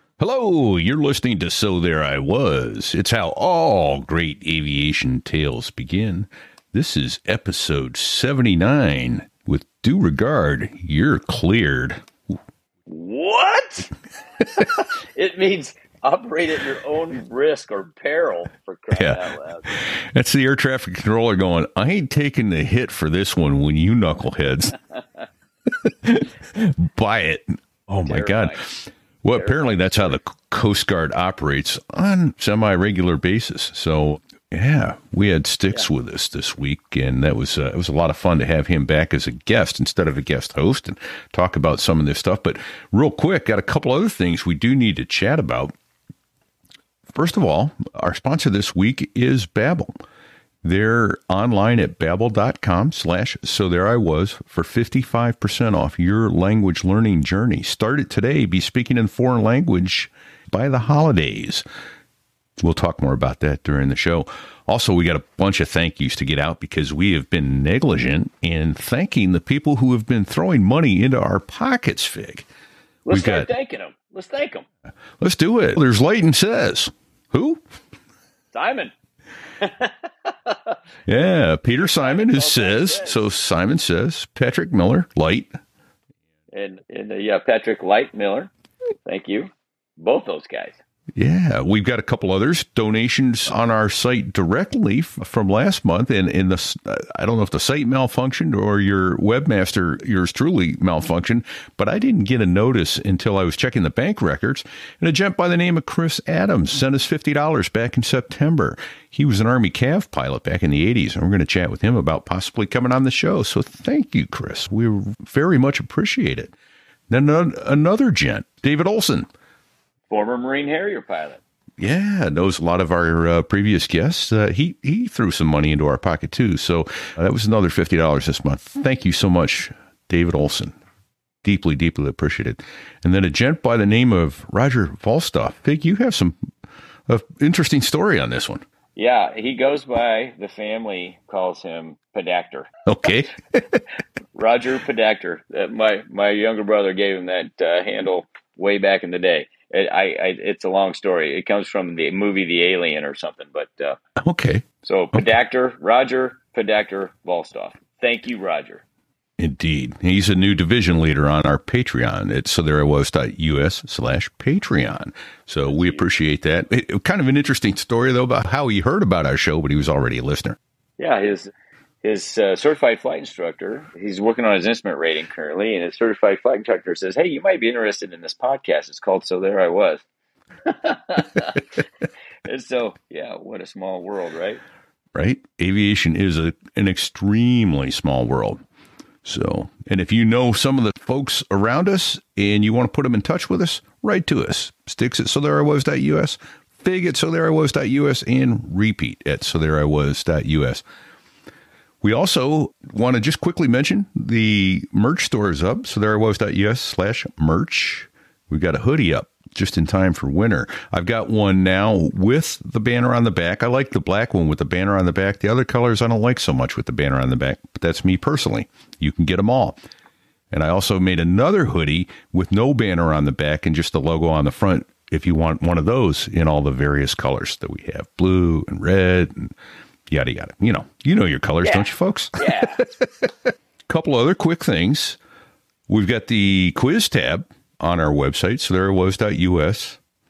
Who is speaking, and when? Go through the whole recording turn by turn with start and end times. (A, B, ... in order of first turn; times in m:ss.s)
0:00.2-0:12.1 A
0:12.9-0:13.9 B
0:14.5-0:19.8 B
0:18.9-0:24.8 A
0:25.7-0:45.7 A
0:28.0-0:28.6 B
0:29.3-0:30.2 B
0:47.1-0:50.0 A
0:50.6-1:01.6 A
1:02.6-1:12.4 A
1:13.0-1:14.6 B
1:13.1-1:13.5 A
1:15.2-1:17.6 A
1:18.5-1:18.9 B
1:19.6-1:20.8 B
1:21.0-1:25.5 A
1:21.8-1:23.2 B
1:26.5-1:28.5 B
1:29.0-1:30.8 B
1:31.1-1:56.5 A
1:57.1-1:59.3 A
2:00.1-2:01.4 B
2:01.8-2:10.8 A
2:11.4-2:16.4 A
2:17.1-2:18.6 A
2:19.0-2:22.7 B
2:22.9-2:23.8 A
2:24.3-2:34.0 B
2:34.2-2:35.2 A
2:34.8-2:38.8 B
2:39.4-2:50.6 A
2:45.7-2:46.0 B
2:51.0-2:51.5 B
2:52.0-3:00.0 B
3:00.6-3:01.6 B
3:02.4-3:04.6 B
3:05.1-3:08.6 A
3:09.2-3:20.8 A
3:22.0-3:39.8 A
3:40.5-3:49.5 A
3:50.1-3:55.2 A
3:51.6-3:52.8 B
3:55.9-4:00.0 A